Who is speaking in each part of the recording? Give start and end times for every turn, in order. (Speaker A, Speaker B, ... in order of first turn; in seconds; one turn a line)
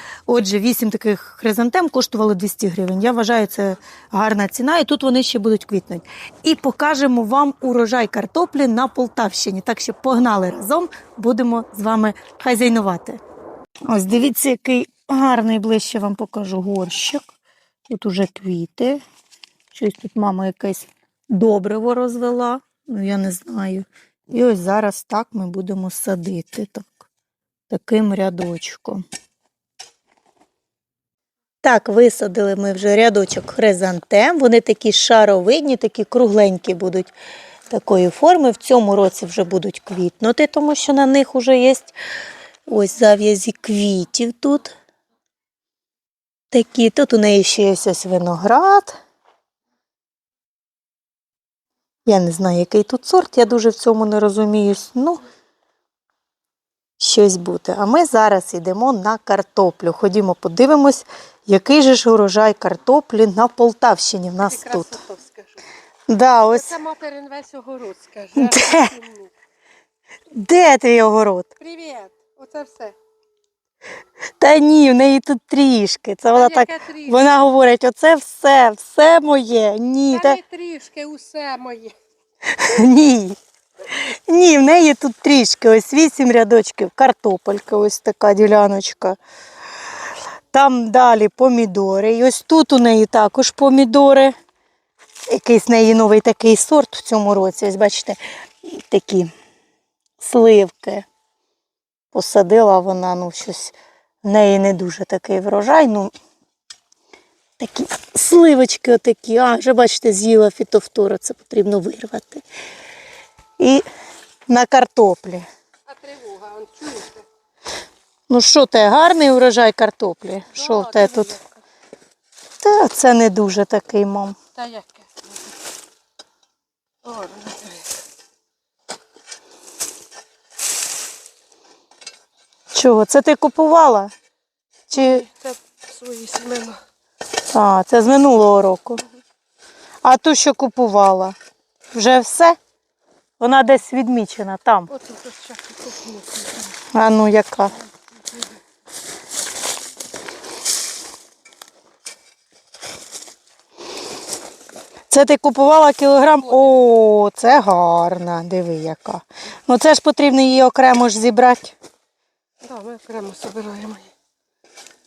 Speaker A: 0.3-13.2
Speaker A: 13.9-17.2
Speaker A: 17.9-19.0
Speaker A: 19.7-27.1
Speaker A: 27.7-29.0
Speaker A: 31.6-37.1
Speaker A: 37.7-41.9
Speaker A: 42.7-44.7
Speaker A: 46.5-49.0
Speaker A: 52.1-55.2
Speaker A: 57.0-65.0
Speaker B: 64.5-65.6
Speaker A: 66.1-66.7
Speaker B: 66.5-69.3
Speaker A: 68.4-69.0
Speaker A: 70.3-71.5
Speaker B: 71.6-73.0
Speaker A: 74.4-80.4
Speaker B: 76.3-77.2
Speaker B: 80.1-82.0
Speaker A: 82.5-89.2
Speaker A: 90.5-94.3
Speaker A: 95.3-99.3
Speaker A: 100.2-101.1
Speaker A: 102.1-106.1
Speaker A: 107.6-112.4
Speaker A: 113.6-113.9
Speaker A: 114.5-115.5
Speaker B: 115.9-117.3
Speaker A: 118.3-121.3
Speaker B: 120.5-121.5
Speaker A: 122.6-124.4
Speaker B: 124.6-125.5
Speaker B: 127.0-128.0
Speaker A: 132.7-134.1
Speaker B: 134.9-136.8
Speaker A: 134.9-135.2
Speaker A: 137.5-139.0
Speaker A: 140.0-141.4
Speaker A: 141.9-142.6
Speaker A: 143.4-144.9
Speaker B: 144.9-146.8
Speaker A: 146.9-147.8
Speaker A: 155.1-161.8
Speaker B: 162.6-164.1